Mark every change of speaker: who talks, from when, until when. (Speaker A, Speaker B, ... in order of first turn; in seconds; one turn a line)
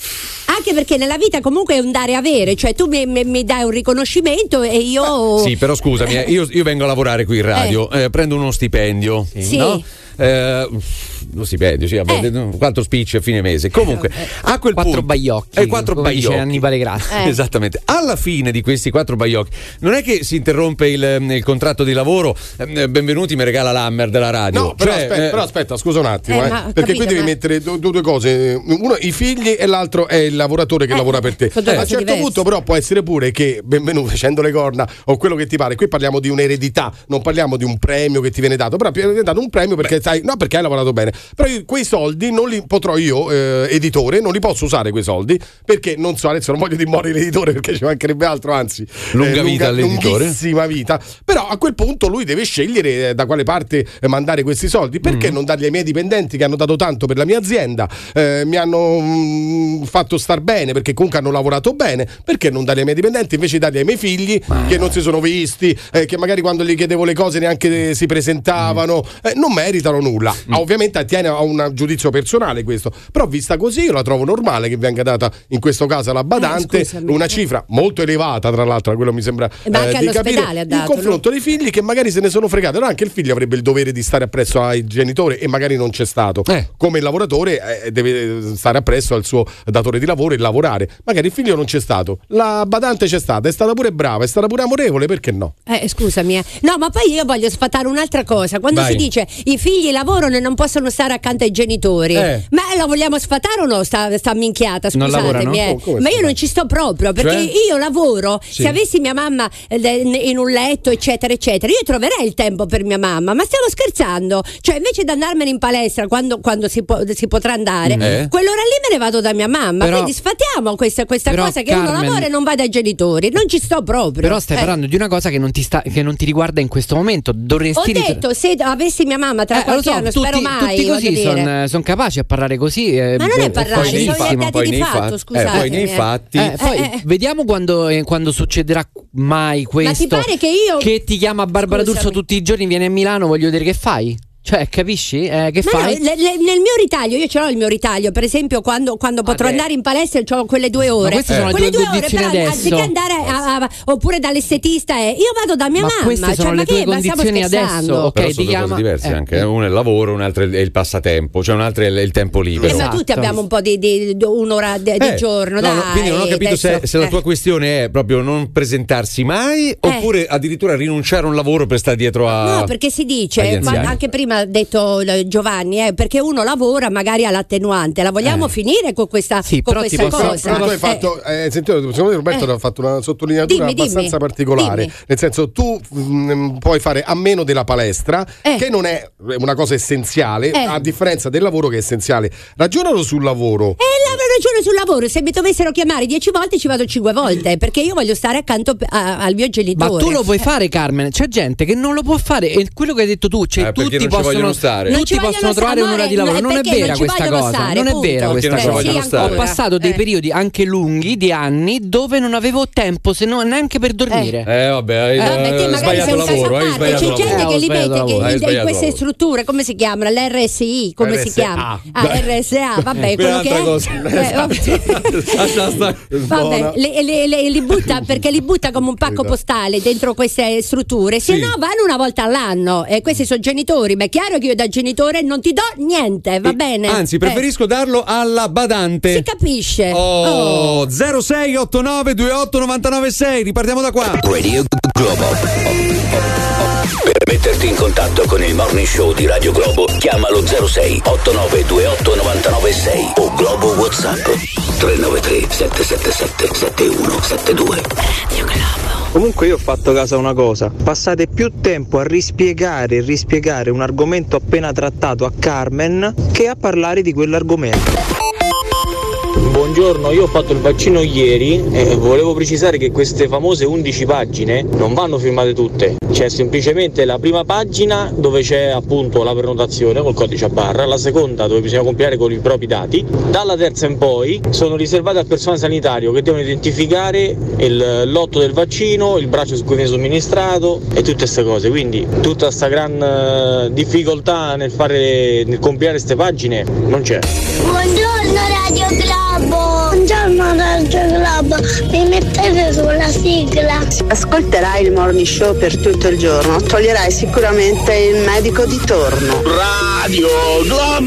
Speaker A: 0.5-5.5
Speaker B: 5.4-25.4
Speaker A: 9.4-9.8
Speaker C: 14.7-17.1
Speaker A: 17.1-17.4
Speaker D: 24.5-95.5
Speaker A: 26.3-27.3
Speaker A: 30.9-32.4
Speaker B: 49.1-50.4
Speaker B: 55.0-55.4
Speaker A: 76.3-77.4
Speaker A: 79.7-81.2
Speaker A: 95.7-124.7
Speaker B: 98.7-99.0
Speaker B: 102.1-102.4
Speaker C: 104.9-105.6
Speaker D: 105.1-106.3
Speaker B: 107.2-107.5
Speaker B: 118.0-118.3
Speaker C: 119.8-120.1
Speaker C: 121.3-122.3
Speaker C: 124.2-128.2
Speaker A: 127.8-131.5
Speaker C: 129.5-134.4
Speaker A: 133.2-137.0
Speaker B: 133.7-136.6
Speaker C: 135.5-135.8
Speaker C: 136.3-146.0
Speaker A: 139.8-140.9
Speaker A: 141.7-142.2
Speaker A: 145.6-158.1
Speaker C: 149.2-149.6
Speaker C: 151.0-152.9
Speaker B: 151.3-151.6
Speaker C: 155.8-159.4
Speaker B: 158.2-163.3
Speaker A: 162.6-167.1
Speaker C: 162.7-163.0
Speaker B: 165.0-172.7
Speaker A: 172.3-181.0
Speaker B: 173.4-174.0
Speaker C: 173.6-173.9
Speaker C: 178.2-178.5
Speaker C: 179.4-180.8
Speaker D: 180.0-193.8
Speaker A: 183.5-184.9
Speaker A: 190.5-190.8
Speaker A: 193.8-200.4
Speaker C: 199.8-214.5
Speaker B: 203.6-204.9
Speaker A: 204.9-210.0
Speaker B: 208.3-209.4
Speaker B: 214.4-217.5
Speaker C: 215.2-218.3
Speaker A: 215.2-225.2
Speaker B: 218.2-219.0
Speaker D: 221.0-222.1
Speaker B: 222.9-226.2
Speaker D: 224.0-225.5
Speaker D: 226.1-226.8
Speaker A: 226.3-237.4
Speaker D: 229.1-229.3
Speaker B: 231.2-231.5
Speaker B: 236.4-239.2
Speaker A: 239.1-240.8
Speaker B: 239.9-244.2
Speaker E: 244.2-245.8
Speaker E: 247.0-257.9
Speaker F: 269.4-297.3
Speaker G: 297.6-303.8
Speaker H: 303.9-309.5